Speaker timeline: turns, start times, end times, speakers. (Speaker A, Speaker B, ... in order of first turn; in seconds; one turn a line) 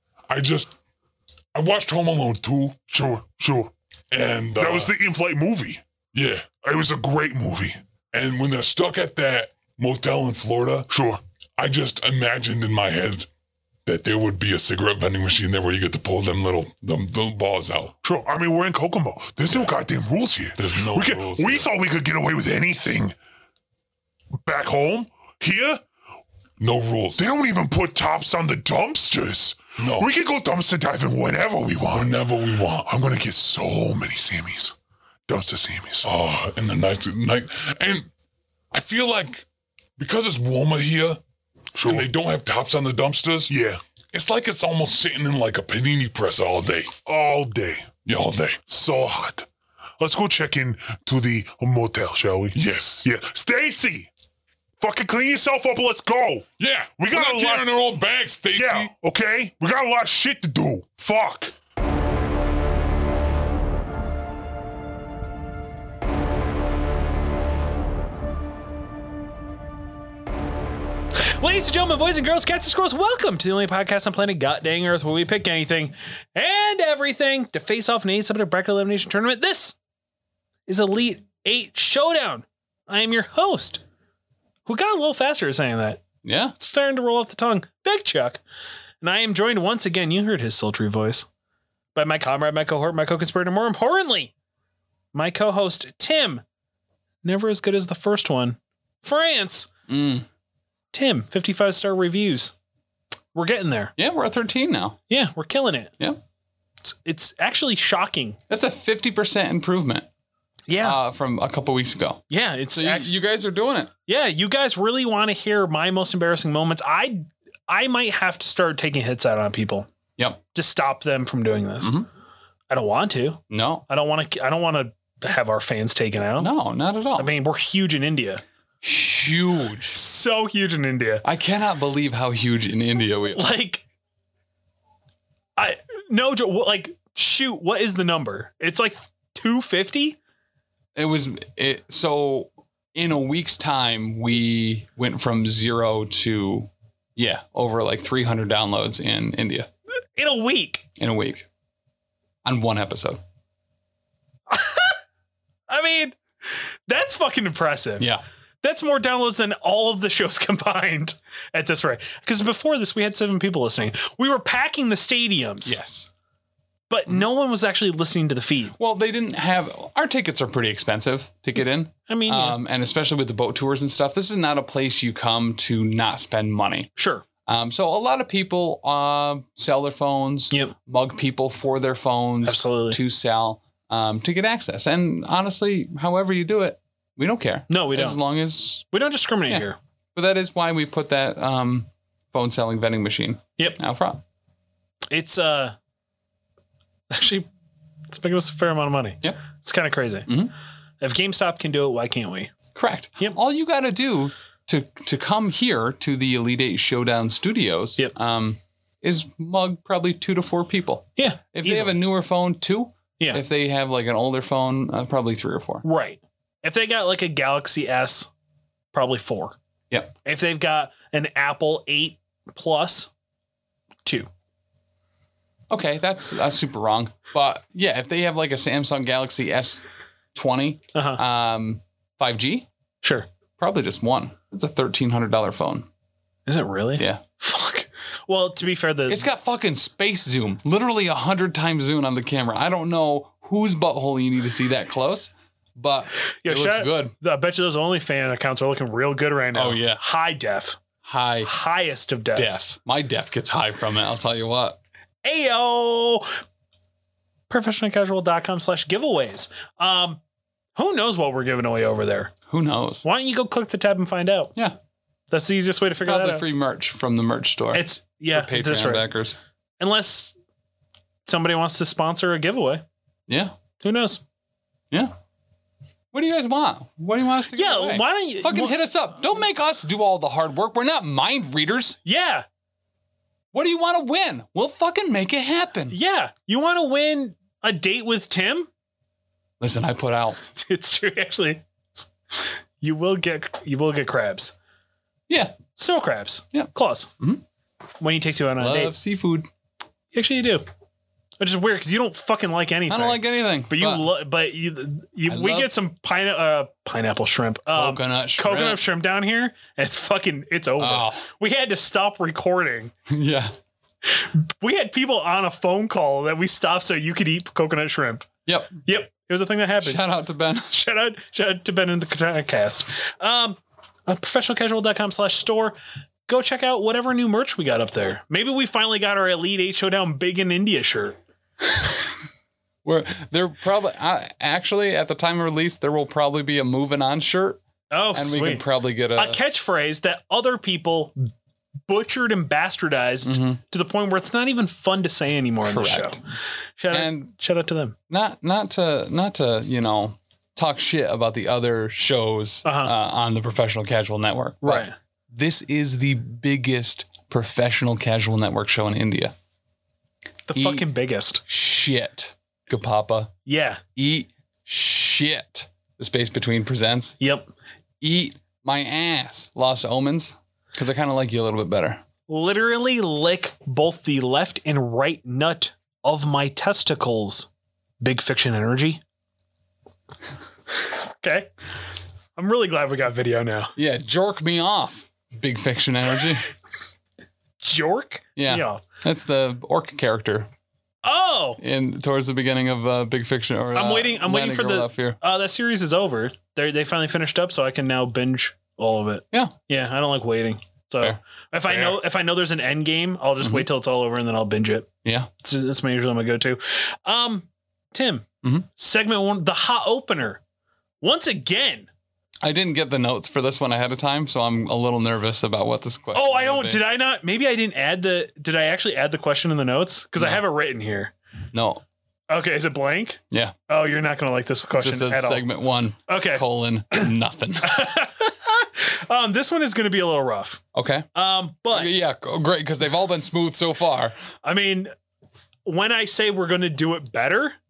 Speaker A: 0.3-0.7
Speaker A: 1.5-2.8
Speaker B: 2.9-3.7
Speaker A: 4.1-4.9
Speaker B: 4.6-5.8
Speaker A: 6.1-6.5
Speaker B: 6.6-7.8
Speaker A: 8.1-10.9
Speaker B: 10.9-11.2
Speaker A: 11.6-13.3
Speaker A: 13.9-17.9
Speaker B: 18.0-23.1
Speaker A: 20.6-21.7
Speaker B: 24.5-25.8
Speaker A: 26.6-27.3
Speaker B: 27.2-32.2
Speaker A: 29.8-30.1
Speaker A: 31.9-32.9
Speaker B: 32.8-34.8
Speaker B: 35.3-36.1
Speaker A: 36.0-38.1
Speaker A: 38.7-39.5
Speaker A: 40.0-41.2
Speaker B: 41.8-42.1
Speaker A: 41.8-43.5
Speaker B: 43.5-43.8
Speaker A: 44.1-46.9
Speaker B: 47.1-47.9
Speaker A: 48.1-48.6
Speaker B: 48.7-49.5
Speaker B: 50.0-54.1
Speaker A: 52.5-53.1
Speaker B: 54.8-56.5
Speaker A: 56.6-58.9
Speaker B: 57.0-57.7
Speaker B: 58.5-61.5
Speaker C: 71.2-79.8
Speaker C: 80.7-83.8
Speaker C: 84.7-86.0
Speaker D: 86.2-86.5
Speaker C: 86.6-88.4
Speaker C: 89.0-91.3
Speaker C: 92.0-94.3
Speaker C: 95.1-96.4
Speaker C: 97.2-99.7
Speaker D: 99.9-100.3
Speaker C: 100.9-102.5
Speaker C: 103.3-103.9
Speaker D: 104.0-105.0
Speaker C: 105.1-106.0
Speaker C: 106.8-108.4
Speaker D: 108.5-110.1
Speaker C: 110.7-111.0
Speaker D: 110.8-113.9
Speaker C: 112.3-113.1
Speaker C: 114.1-119.9
Speaker C: 120.5-121.9
Speaker D: 121.8-122.1
Speaker C: 122.7-126.5
Speaker D: 123.5-123.8
Speaker D: 126.4-127.3
Speaker C: 127.2-128.4
Speaker D: 128.8-130.0
Speaker C: 129.9-131.2
Speaker D: 131.2-133.5
Speaker C: 133.3-133.8
Speaker C: 135.6-140.2
Speaker D: 141.0-149.7
Speaker C: 150.2-150.8
Speaker D: 151.0-151.5
Speaker D: 152.4-153.2
Speaker C: 154.5-155.0
Speaker C: 155.7-158.1
Speaker C: 158.6-165.8
Speaker D: 165.7-166.1
Speaker C: 166.9-168.8
Speaker D: 168.8-176.9
Speaker C: 172.1-172.6
Speaker C: 177.0-177.2
Speaker D: 177.5-188.9
Speaker C: 182.4-183.0
Speaker C: 187.7-188.2
Speaker C: 188.9-189.8
Speaker D: 189.5-194.2
Speaker C: 195.1-195.8
Speaker C: 197.1-197.5
Speaker C: 198.1-200.3
Speaker D: 200.3-200.5
Speaker C: 201.0-202.5
Speaker D: 202.8-215.8
Speaker C: 211.2-212.0
Speaker C: 215.8-218.3
Speaker C: 218.9-219.6
Speaker C: 220.2-223.1
Speaker D: 225.7-229.8
Speaker D: 230.3-232.7
Speaker C: 230.9-231.2
Speaker C: 233.0-233.3
Speaker D: 233.6-235.9
Speaker C: 236.5-239.3
Speaker D: 237.0-237.2
Speaker D: 239.1-247.1
Speaker C: 246.2-250.8
Speaker D: 249.5-250.0
Speaker D: 251.0-251.5
Speaker C: 251.4-252.6
Speaker D: 252.3-254.8
Speaker C: 255.2-256.4
Speaker C: 257.5-260.2
Speaker C: 260.8-262.3
Speaker D: 262.5-263.1
Speaker C: 263.0-264.6
Speaker C: 265.3-266.4
Speaker D: 266.0-269.4
Speaker C: 267.7-269.1
Speaker C: 269.8-270.3
Speaker C: 271.3-272.8
Speaker D: 273.3-273.5
Speaker C: 273.8-274.2
Speaker D: 276.1-282.0
Speaker C: 277.5-278.8
Speaker C: 282.1-282.4
Speaker D: 283.5-286.0
Speaker C: 285.9-288.7
Speaker D: 289.6-290.4
Speaker C: 290.5-294.5
Speaker D: 295.3-295.6
Speaker C: 295.7-297.1
Speaker D: 296.5-297.4
Speaker C: 298.0-298.9
Speaker D: 298.6-299.5
Speaker C: 300.1-300.6
Speaker C: 301.4-312.9
Speaker D: 302.9-304.1
Speaker D: 305.3-305.7
Speaker D: 307.7-308.8
Speaker D: 310.8-311.3
Speaker D: 313.1-313.5
Speaker C: 314.1-318.3
Speaker D: 318.5-318.8
Speaker C: 318.9-320.0
Speaker D: 319.8-320.7
Speaker C: 320.7-325.8
Speaker C: 326.3-331.2
Speaker D: 332.9-337.6
Speaker C: 337.9-338.6
Speaker D: 338.1-339.4
Speaker C: 339.2-341.3
Speaker C: 341.9-346.2
Speaker D: 343.2-343.6
Speaker D: 345.6-346.2
Speaker C: 346.8-348.0
Speaker D: 346.9-347.3
Speaker D: 348.1-359.3
Speaker C: 352.6-352.9
Speaker C: 354.6-354.9
Speaker C: 360.5-361.4
Speaker D: 360.5-360.9
Speaker D: 361.5-363.3
Speaker C: 363.5-363.8
Speaker D: 364.0-367.2
Speaker C: 367.2-367.5
Speaker D: 368.0-372.0
Speaker C: 372.3-377.5
Speaker C: 378.0-379.0
Speaker C: 380.9-381.5
Speaker C: 382.4-383.7
Speaker D: 383.8-386.5
Speaker C: 387.6-388.8
Speaker D: 388.4-390.5
Speaker C: 391.0-391.6
Speaker D: 391.6-395.2
Speaker C: 393.7-404.9
Speaker D: 401.0-402.0
Speaker D: 403.4-403.7
Speaker D: 405.0-405.3
Speaker C: 405.4-410.4
Speaker C: 411.0-411.9
Speaker D: 412.4-416.8
Speaker C: 416.1-421.1
Speaker D: 420.2-420.4
Speaker D: 421.5-421.8
Speaker C: 422.3-425.4
Speaker D: 423.3-423.6
Speaker D: 424.8-427.8
Speaker C: 426.1-427.1
Speaker C: 427.6-430.6
Speaker D: 430.7-431.1
Speaker C: 431.1-431.9
Speaker D: 431.7-434.1
Speaker C: 434.4-434.9
Speaker C: 435.6-437.6